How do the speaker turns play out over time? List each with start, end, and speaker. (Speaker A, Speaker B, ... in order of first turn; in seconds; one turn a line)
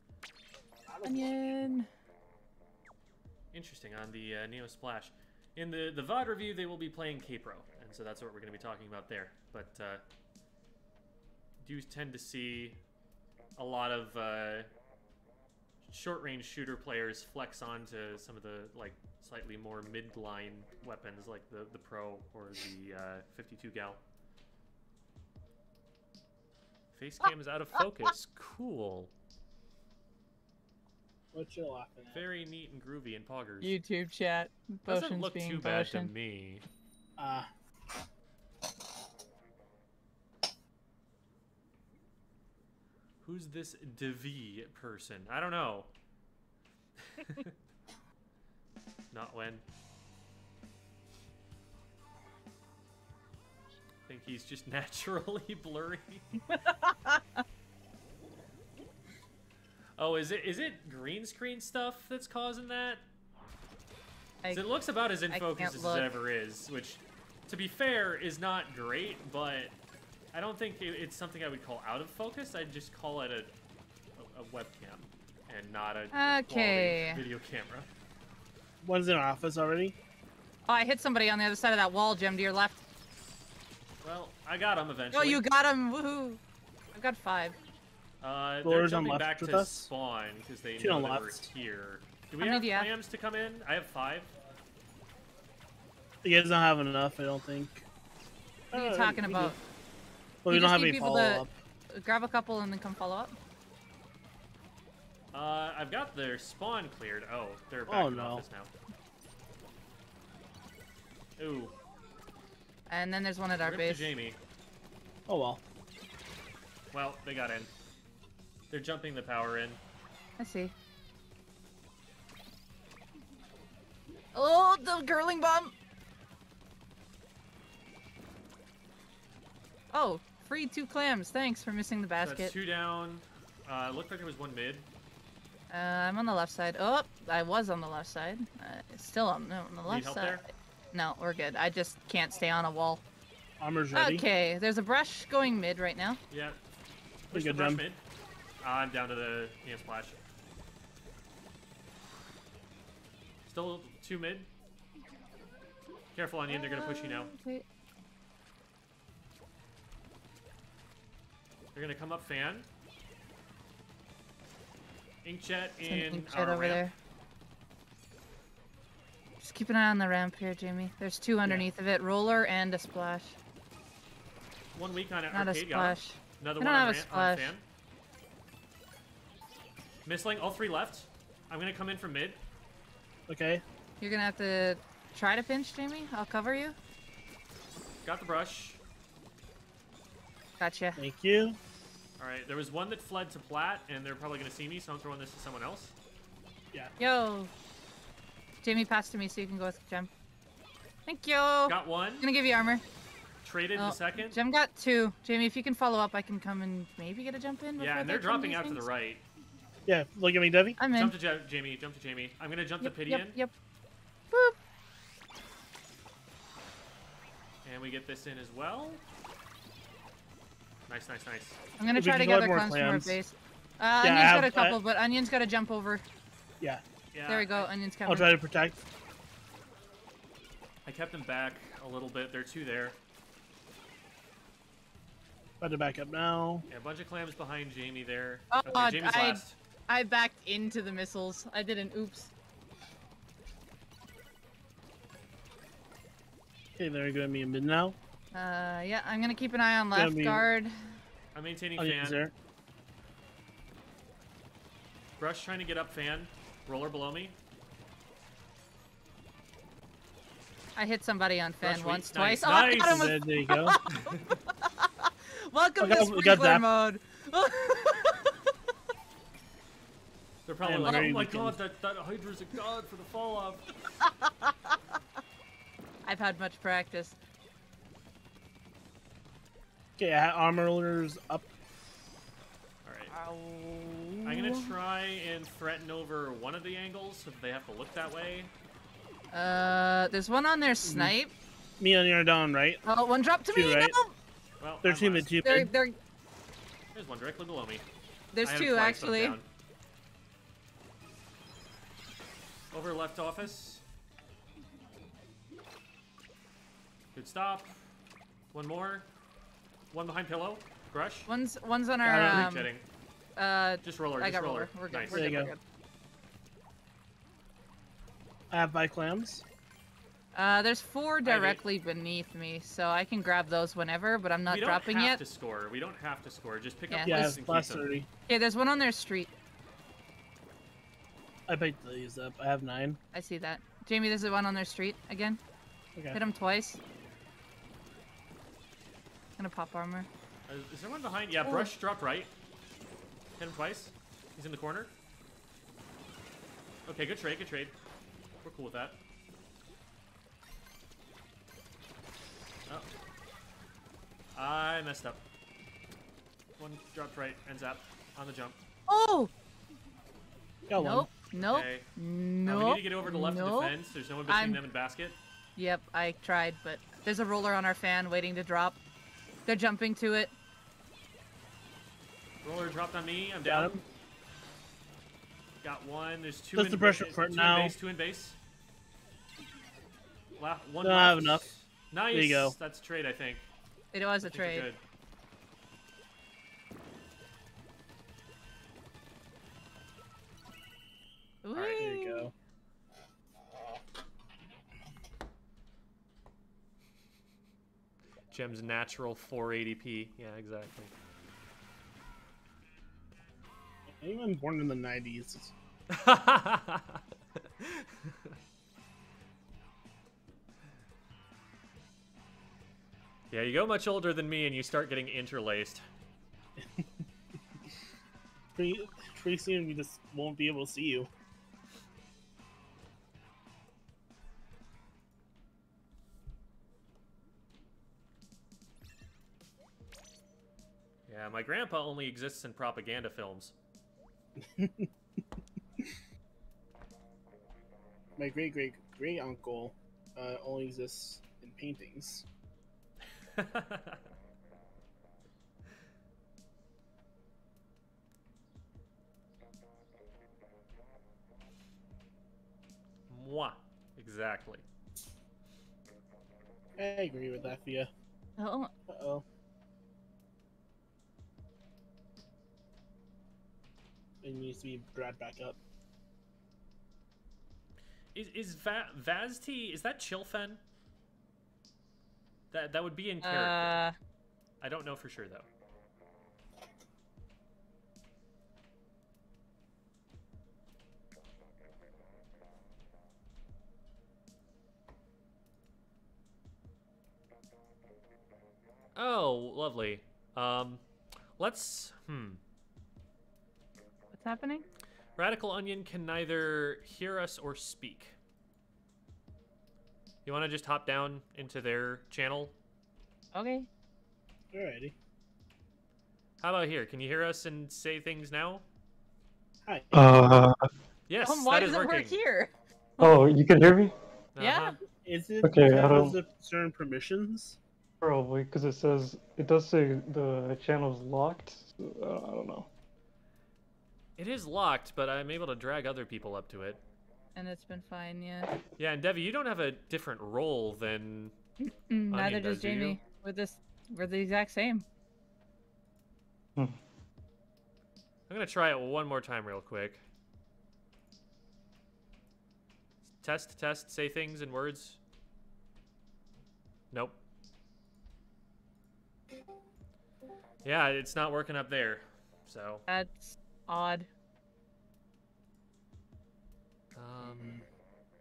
Speaker A: 0.9-1.5
Speaker B: 1.0-1.9
Speaker C: 3.5-10.0
Speaker C: 11.6-12.8
Speaker C: 13.6-14.7
Speaker C: 15.8-24.0
Speaker C: 26.9-29.1
Speaker A: 31.3-32.2
Speaker C: 32.1-33.8
Speaker B: 33.6-36.1
Speaker C: 34.9-36.6
Speaker A: 37.2-37.5
Speaker C: 43.2-45.9
Speaker C: 47.0-47.5
Speaker C: 49.1-49.6
Speaker C: 54.1-56.5
Speaker B: 56.5-57.4
Speaker C: 60.0-63.0
Speaker C: 64.5-69.8
Speaker B: 65.3-66.1
Speaker C: 70.3-73.5
Speaker C: 74.2-77.9
Speaker B: 76.1-77.2
Speaker A: 78.8-80.0
Speaker B: 80.7-82.8
Speaker C: 84.0-85.4
Speaker B: 85.1-86.4
Speaker B: 86.9-87.6
Speaker C: 88.2-94.3
Speaker A: 88.6-89.9
Speaker A: 90.8-91.5
Speaker B: 92.4-92.9
Speaker A: 96.2-97.8
Speaker A: 98.7-99.6
Speaker B: 98.7-99.6
Speaker A: 100.4-101.5
Speaker B: 100.5-103.3
Speaker C: 105.3-108.7
Speaker A: 107.9-108.4
Speaker C: 111.4-111.8
Speaker B: 112.9-114.1
Speaker C: 113.6-114.4
Speaker A: 115.3-115.6
Speaker C: 116.9-117.7
Speaker C: 118.7-119.8
Speaker B: 120.4-120.7
Speaker B: 124.3-125.8
Speaker B: 129.9-132.5
Speaker C: 132.2-134.9
Speaker B: 135.7-143.0
Speaker C: 139.9-140.4
Speaker A: 143.6-144.2
Speaker B: 143.9-146.2
Speaker C: 146.3-146.6
Speaker C: 147.3-148.0
Speaker A: 147.3-147.8
Speaker C: 148.6-150.2
Speaker C: 153.5-154.5
Speaker C: 156.2-157.3
Speaker B: 156.5-157.7
Speaker C: 161.8-162.7
Speaker C: 165.2-166.8
Speaker B: 165.8-166.9
Speaker B: 169.4-173.4
Speaker C: 174.8-177.6
Speaker B: 175.3-177.5
Speaker C: 180.1-182.4
Speaker A: 183.3-183.6
Speaker B: 184.0-186.8
Speaker C: 188.0-188.8
Speaker B: 190.6-191.0
Speaker A: 191.0-191.6
Speaker C: 192.2-195.9
Speaker B: 197.0-197.5
Speaker B: 198.6-200.1
Speaker B: 201.1-202.8
Speaker C: 201.7-202.3
Speaker C: 203.4-204.4
Speaker B: 203.8-208.9
Speaker C: 207.8-209.2
Speaker A: 209.9-210.8
Speaker B: 210.8-211.2
Speaker C: 210.9-213.3
Speaker B: 212.8-213.5
Speaker B: 214.3-214.6
Speaker C: 217.6-219.0
Speaker C: 220.9-221.6
Speaker B: 221.8-226.0
Speaker A: 222.0-223.2
Speaker A: 224.0-224.8
Speaker C: 227.1-227.7
Speaker B: 227.3-228.3
Speaker A: 228.1-228.8
Speaker C: 230.8-233.0
Speaker A: 235.6-236.7
Speaker C: 236.7-239.6
Speaker B: 238.5-242.3
Speaker A: 246.8-248.0
Speaker B: 248.3-251.0
Speaker A: 249.9-250.4
Speaker C: 251.3-252.2
Speaker A: 251.8-252.3
Speaker C: 255.2-257.4
Speaker B: 260.8-268.5
Speaker C: 261.6-263.1
Speaker A: 262.8-263.8
Speaker C: 264.1-264.4
Speaker A: 265.8-266.6
Speaker C: 270.5-273.8
Speaker A: 270.6-271.6
Speaker B: 270.8-271.1
Speaker B: 274.0-274.8
Speaker B: 276.0-277.2
Speaker A: 280.0-281.5
Speaker C: 282.9-283.1
Speaker B: 283.1-284.7
Speaker C: 284.2-288.5
Speaker B: 289.3-291.3
Speaker A: 290.8-291.1
Speaker A: 291.8-292.8
Speaker B: 292.9-294.1
Speaker A: 293.5-293.9
Speaker C: 294.6-295.5
Speaker A: 294.8-295.7
Speaker B: 295.4-296.0
Speaker C: 296.9-297.8
Speaker B: 298.3-299.4
Speaker C: 298.4-299.5
Speaker C: 302.7-303.8
Speaker C: 307.1-307.9
Speaker C: 308.5-309.1
Speaker C: 309.9-311.3
Speaker B: 311.3-312.7
Speaker A: 312.0-312.5
Speaker C: 312.1-312.9
Speaker B: 313.4-315.6
Speaker C: 313.8-315.4
Speaker A: 315.1-315.5
Speaker A: 318.5-319.4
Speaker B: 320.4-325.2
Speaker C: 321.2-321.6
Speaker C: 324.5-327.9
Speaker B: 326.9-327.3
Speaker A: 327.1-328.1
Speaker B: 328.3-329.3
Speaker A: 331.5-333.0
Speaker B: 333.1-335.4
Speaker B: 336.1-336.8
Speaker B: 339.4-340.1
Speaker C: 340.5-342.3
Speaker B: 341.4-341.7
Speaker C: 343.4-344.9
Speaker C: 346.9-347.8
Speaker C: 348.4-349.0
Speaker C: 354.3-355.2
Speaker C: 356.6-358.6
Speaker B: 358.9-359.3
Speaker A: 360.7-361.1
Speaker B: 360.7-363.8
Speaker C: 361.4-361.9
Speaker C: 362.4-365.2
Speaker B: 364.3-364.6
Speaker B: 365.6-368.8
Speaker B: 369.5-370.3
Speaker C: 372.4-373.7
Speaker A: 373.5-373.8
Speaker C: 375.6-378.4
Speaker A: 376.6-377.7
Speaker C: 380.4-383.5
Speaker A: 380.8-381.4
Speaker A: 382.1-382.6
Speaker B: 383.9-384.7
Speaker C: 384.2-384.8
Speaker B: 391.4-392.3
Speaker A: 391.6-392.3
Speaker C: 398.3-400.9
Speaker A: 403.9-405.5
Speaker C: 405.9-407.0
Speaker C: 407.6-408.4
Speaker C: 413.3-415.8
Speaker A: 416.6-416.9
Speaker A: 418.6-421.1
Speaker C: 431.1-433.5
Speaker A: 434.4-434.9
Speaker A: 438.2-442.2
Speaker C: 443.3-444.0
Speaker C: 453.1-454.6
Speaker A: 456.8-457.9
Speaker B: 458.4-458.7
Speaker A: 458.9-459.2
Speaker A: 464.2-465.6
Speaker C: 468.1-470.6
Speaker C: 472.5-473.8
Speaker B: 473.2-473.9
Speaker C: 474.6-475.5
Speaker C: 488.9-490.8
Speaker C: 491.4-492.4
Speaker B: 494.1-494.6
Speaker C: 495.2-498.2
Speaker C: 500.3-502.6
Speaker B: 503.3-503.7
Speaker A: 504.5-504.9
Speaker C: 506.4-508.6
Speaker A: 509.7-510.4
Speaker D: 509.9-510.7
Speaker C: 511.1-512.2
Speaker B: 511.2-513.1
Speaker D: 513.0-514.0
Speaker C: 514.4-514.8
Speaker B: 514.4-514.8
Speaker A: 515.0-517.6
Speaker D: 515.4-516.2
Speaker D: 518.0-522.7
Speaker C: 524.2-526.8
Speaker B: 527.4-528.5
Speaker C: 528.8-531.4
Speaker B: 531.6-534.9
Speaker C: 532.1-533.0
Speaker C: 538.3-540.0
Speaker C: 543.2-545.0
Speaker C: 546.9-547.2
Speaker C: 550.6-552.9
Speaker B: 552.9-554.1
Speaker C: 557.0-557.6
Speaker A: 557.2-557.6